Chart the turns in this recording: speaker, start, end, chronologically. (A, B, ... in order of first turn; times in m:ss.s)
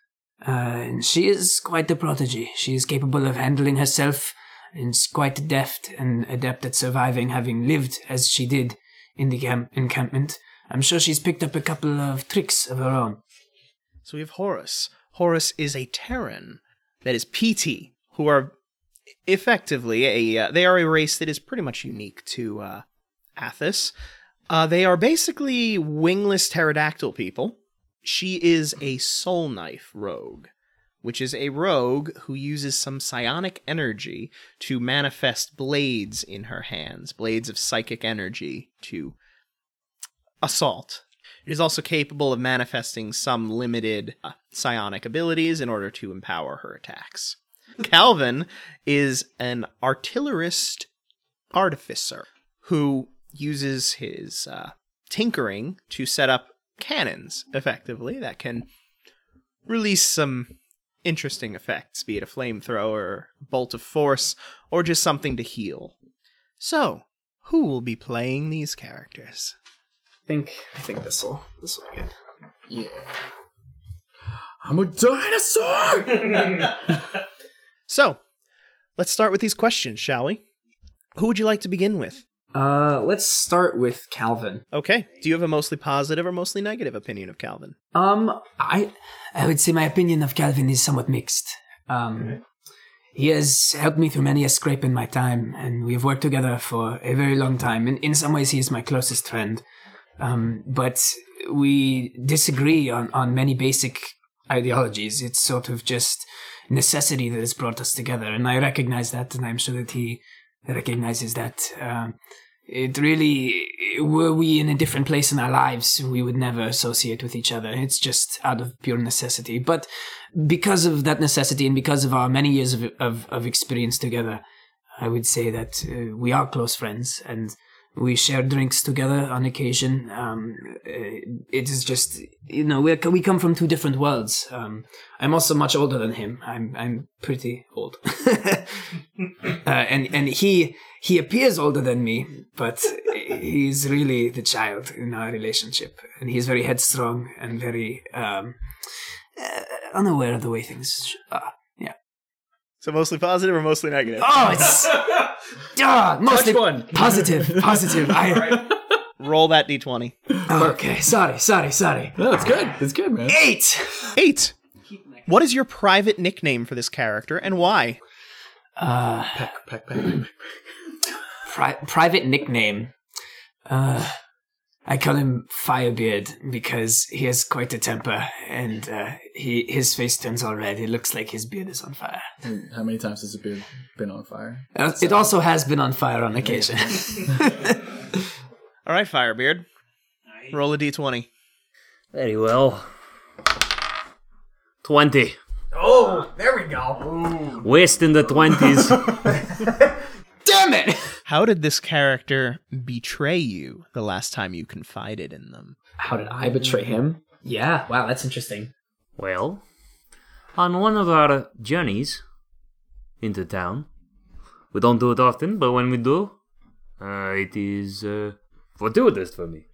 0:00.4-0:13.2 A
0:14.0-0:18.5 B
0:19.3-0:22.8 B
0:23.4-0:23.9 B
0:24.5-0:30.5 B
0:31.0-0:39.2 B
0:40.4-0:50.9 B
0:51.5-0:58.7 B
0:59.7-1:06.0 B
1:06.6-1:09.6 B
1:10.3-1:12.1 C
1:12.7-1:13.1 D
1:14.6-1:17.0 D
1:17.9-1:18.2 B
1:19.0-1:20.4 B
1:21.2-1:22.2 B
1:22.5-1:24.6 C
1:24.7-1:27.8 B
1:27.9-1:32.4 A
1:33.1-1:39.6 A
1:40.2-1:52.2 A
1:52.7-2:04.4 A
2:05.0-2:18.8 A
2:19.5-2:28.6 A
2:29.4-2:32.0 A
2:32.8-2:34.4 B
2:34.2-2:38.8 A
2:36.3-2:38.4 D
2:39.2-2:40.2 B
2:40.5-2:42.2 A
2:42.2-2:43.4 D
2:43.3-2:44.1 A
2:44.2-2:44.6 B
2:45.3-2:48.0 B
2:48.8-2:49.4 A
2:49.3-2:50.6 D
2:51.5-2:52.9 A
2:53.7-2:54.2 A
2:54.9-3:02.3 A
3:02.4-3:05.2 D
3:04.7-3:07.9 A
3:08.9-3:09.7 B
3:10.5-3:11.3 B
3:12.1-3:12.9 E
3:14.8-3:15.4 E
3:17.1-3:17.5 D
3:17.6-3:19.2 E
3:20.5-3:21.0 A
3:21.3-3:25.8 B
3:26.0-3:28.7 C
3:29.2-3:29.6 E
3:30.6-3:32.2 E
3:33.2-3:33.9 E
3:34.7-3:36.4 E
3:37.0-3:39.6 E